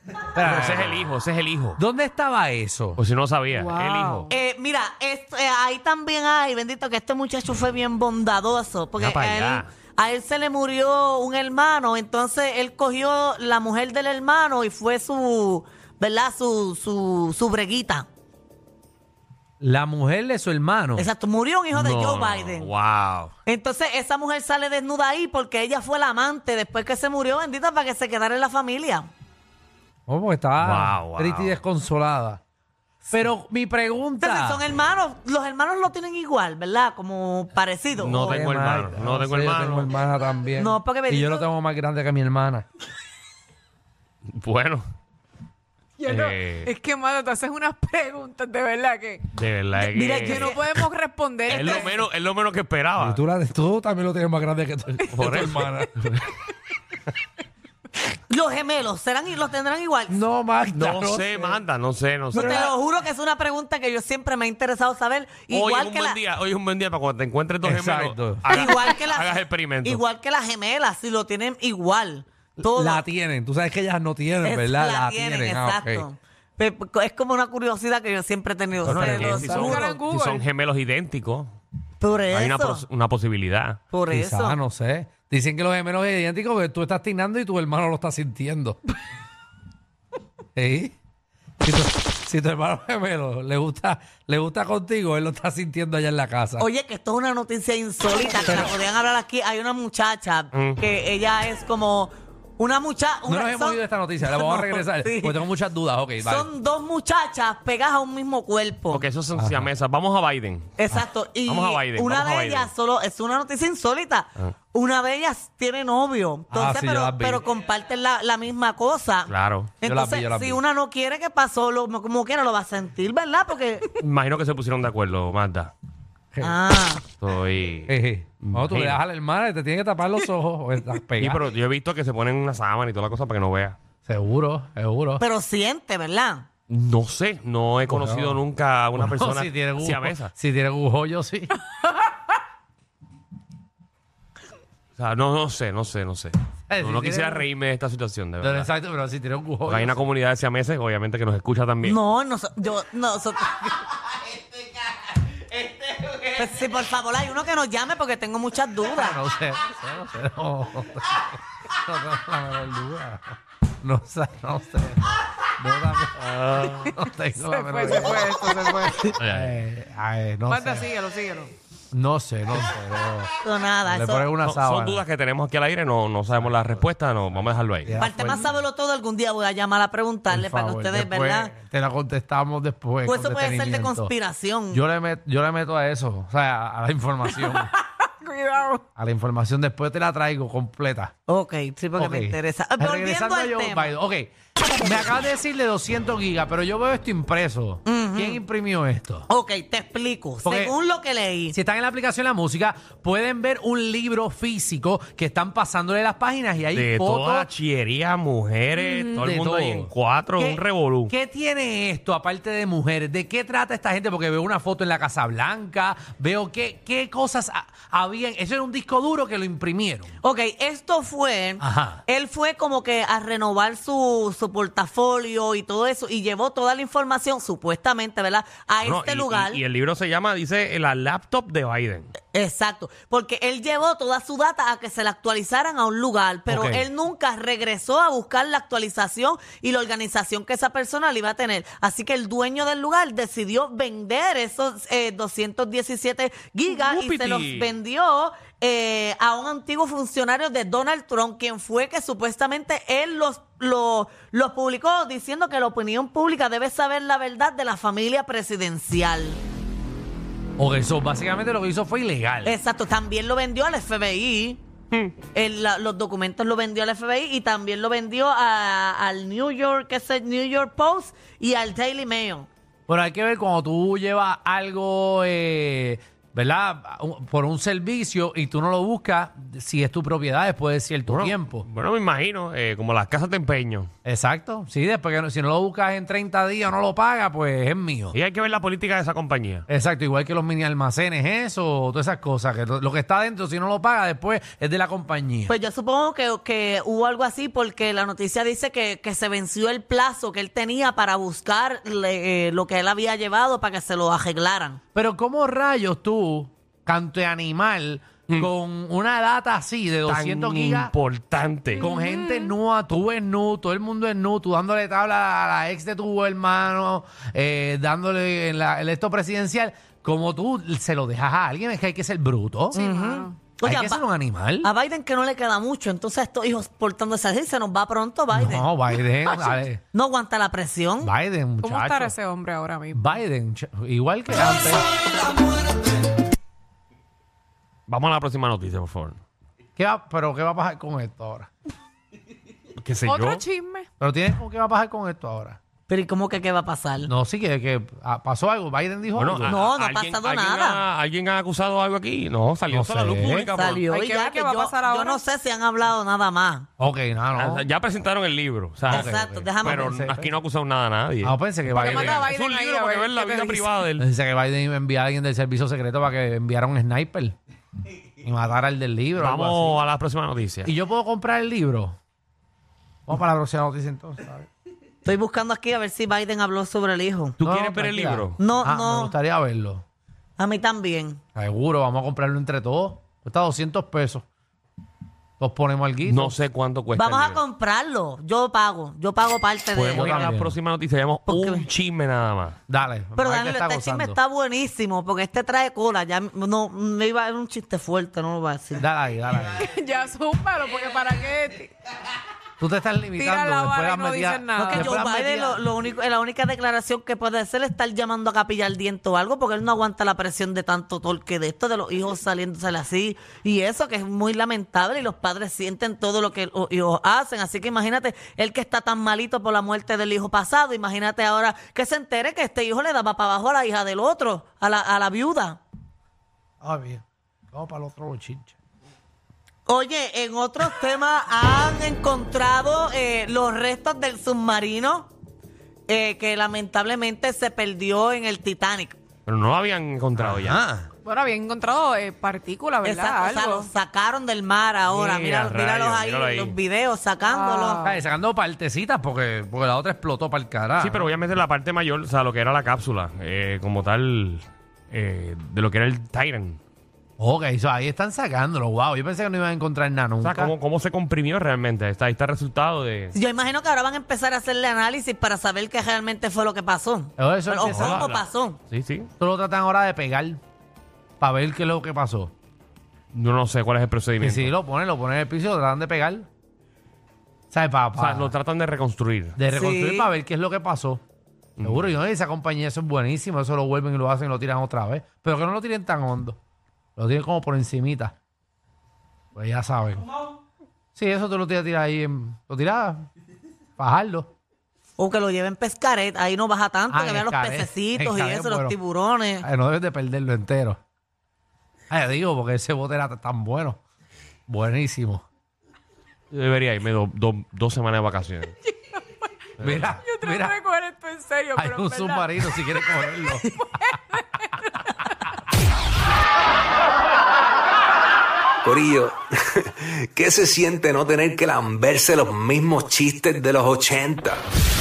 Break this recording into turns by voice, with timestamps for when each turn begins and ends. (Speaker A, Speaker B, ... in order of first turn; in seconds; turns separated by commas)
Speaker A: 0.3-1.1, Speaker B: 0.4-1.8, Speaker A: 1.8-3.0, Speaker B: 3.0-4.3, Speaker C: 3.5-4.3, Speaker D: 4.3-18.1, Speaker B: 9.0-9.7, Speaker A: 19.6-21.1, Speaker D: 20.9-22.7, Speaker A: 21.7-22.2, Speaker B: 22.1-23.3, Speaker D: 23.4-29.1, Speaker A: 30.1-32.4, Speaker B: 30.6-31.5, Speaker A: 33.1-34.6, Speaker D: 34.2-38.4, Speaker B: 38.0-39.9, Speaker A: 38.0-42.6, Speaker D: 40.5-41.5, Speaker B: 44.3-44.8, Speaker C: 46.0-49.3, Speaker B: 46.1-46.7, Speaker B: 49.3-50.6, Speaker D: 49.9-50.6, Speaker C: 50.1-52.0, Speaker B: 51.5-53.2, Speaker A: 53.0-56.2, Speaker B: 55.1-55.6, Speaker D: 58.3-60.2, Speaker A: 60.1-61.6, Speaker B: 60.7-62.7, Speaker A: 62.3-62.7, Speaker D: 62.3-66.2, Speaker B: 65.5-70.0, Speaker A: 67.6-68.6, Speaker D: 68.5-73.0, Speaker A: 72.6-76.1, Speaker D: 74.4-80.0, Speaker B: 78.8-81.5, Speaker A: 78.8-79.7, Speaker C: 79.2-80.4, Speaker D: 82.0-82.8, Speaker B: 82.3-83.8, Speaker D: 83.9-84.6, Speaker A: 84.1-88.8, Speaker A: 90.5-91.0, Speaker A: 91.6-96.7, Speaker D: 96.6-105.4, Speaker A: 98.4-98.8, Speaker B: 100.5-100.8, Speaker A: 103.3-106.5, Speaker D: 106.2-109.0, Speaker B: 108.9-110.8, Speaker A: 109.3-109.7, Speaker D: 110.8-123.9, Speaker B: 111.4-112.7, Speaker A: 116.5-117.5, Speaker B: 119.3-119.7, Speaker A: 119.8-120.6, Speaker B: 124.0-125.7, Speaker A: 126.3-126.6, Speaker D: 126.4-127.0, Speaker B: 127.2-129.0, Speaker A: 127.9-131.4, Speaker B: 131.2-133.8, Speaker A: 134.1-135.2, Speaker D: 135.2-136.4, Speaker B: 136.7-140.3, Speaker A: 137.9-138.4, Speaker A: 138.9-141.5, Speaker B: 145.0-148.7, Speaker A: 146.7-147.5, Speaker A: 148.4-149.9, Speaker B: 149.7-152.0, Speaker D: 151.8-153.8, Speaker D: 156.3-159.2, Speaker A: 158.9-170.9, Speaker B: 166.2-166.9, Speaker C: 167.3-169.1, Speaker B: 169.2-169.6, Speaker C: 170.5-171.5, Speaker A: 171.9-173.3, Speaker D: 173.4-174.3, Speaker A: 173.8-175.0, Speaker B: 174.4-178.0, Speaker A: 176.4-176.8, Speaker A: 177.3-178.5, Speaker D: 178.0-181.5, Speaker A: 180.3-184.1, Speaker D: 183.0-184.8, Speaker A: 184.7-187.7, Speaker C: 187.4-188.8, Speaker A: 188.9-191.1, Speaker D: 191.3-193.9, Speaker A: 192.0-199.3, Speaker D: 197.8-198.4, Speaker D: 199.3-201.6, Speaker A: 200.4-200.8, Speaker A: 201.5-207.5, Speaker B: 206.7-211.1, Speaker A: 209.1-220.1, Speaker D: 220.2-229.6, Speaker A: 221.6-222.0, Speaker B: 228.8-232.1, Speaker D: 232.3-259.4, Speaker B: 236.5-236.8, Speaker B: 246.7-247.7, Speaker A: 260.6-262.6, Speaker D: 262.4-264.6, Speaker D: 265.3-272.5, Speaker A: 272.9-281.6, Speaker B: 281.1-283.9, Speaker A: 284.0-288.1, Speaker B: 288.1-289.6, Speaker A: 289.7-295.5, Speaker D: 295.5-304.8, Speaker A: 304.9-310.9, Speaker B: 310.1-311.9, Speaker A: 311.8-322.8, Speaker C: 311.8-312.5, Speaker D: 322.7-324.0, Speaker C: 322.7-323.4, Speaker A: 323.6-324.7, Speaker D: 324.6-328.7, Speaker A: 328.3-329.8, Speaker D: 329.9-331.1, Speaker A: 331.0-332.1, Speaker C: 331.6-333.2, Speaker A: 332.9-334.9, Speaker B: 337.9-339.2, Speaker A: 339.8-341.5, Speaker B: 342.8-343.4, Speaker C: 343.0-343.9, Speaker A: 344.0-345.6, Speaker D: 345.9-347.1, Speaker A: 347.1-349.6, Speaker B: 349.1-353.8, Speaker D: 349.4-350.8, Speaker A: 352.7-353.6, Speaker D: 353.5-356.7, Speaker C: 353.9-355.2, Speaker A: 356.8-357.6, Speaker B: 357.4-364.0, Speaker A: 358.9-360.3, Speaker D: 358.9-359.9, Speaker A: 361.2-362.3, Speaker C: 361.7-363.9, Speaker A: 364.0-367.4, Speaker A: 368.2-369.8, Speaker B: 369.2-370.7, Speaker A: 370.6-371.9, Speaker A: 373.1-374.5, Speaker D: 375.0-377.4, Speaker B: 377.4-378.4, Speaker A: 377.4-379.8, Speaker D: 378.4-379.1, Speaker D: 380.4-381.2, Speaker A: 381.4-384.2, Speaker A: 385.4-386.4, Speaker B: 386.0-387.4, Speaker D: 386.9-390.3, Speaker B: 389.7-392.6, Speaker A: 389.9-390.6, Speaker D: 391.2-391.7, Speaker A: 392.7-394.2, Speaker D: 393.1-398.9, Speaker A: 398.7-399.7, Speaker C: 399.6-401.7, Speaker A: 402.6-405.6, Speaker C: 403.2-404.8, Speaker D: 404.6-425.6, Speaker A: 426.6-428.6, Speaker D: 429.6-435.1, Speaker D: 435.9-439.0, Speaker B: 439.2-440.6, Speaker A: 440.2-440.9, Speaker C: 441.0-443.7, Speaker D: 442.8-447.8, Speaker B: 444.9-446.6, Speaker C: 447.2-448.0, Speaker A: 447.8-451.1, Speaker B: 450.8-456.6, Speaker A: 457.2-460.5, Speaker B: 460.2-463.1, Speaker D: 463.1-468.6, Speaker A: 467.2-468.1, Speaker B: 467.6-469.1, Speaker A: 469.2-470.4, Speaker A: 471.2-472.3, Speaker B: 473.1-474.5, Speaker A: 474.2-476.3, Speaker A: 477.5-478.3, Speaker B: 478.0-479.4, Speaker A: 479.4-481.0, Speaker D: 479.5-480.1, Speaker B: 481.6-481.9, Speaker A: 481.6-486.4, Speaker A: 487.0-488.1, Speaker A: 489.3-490.1, Speaker A: 490.9-493.1, Speaker A: 493.8-494.3, Speaker D: 495.0-499.4, Speaker A: 496.9-498.8, Speaker A: 499.4-500.8, Speaker A: 501.9-503.8, Speaker A: 504.5-505.2, Speaker B: 506.3-508.5, Speaker C: 508.7-509.2, Speaker A: 509.6-510.6, Speaker B: 509.6-510.0, Speaker C: 510.0-513.1, Speaker A: 511.6-513.6, Speaker C: 513.8-514.9, Speaker E: 518.6-524.4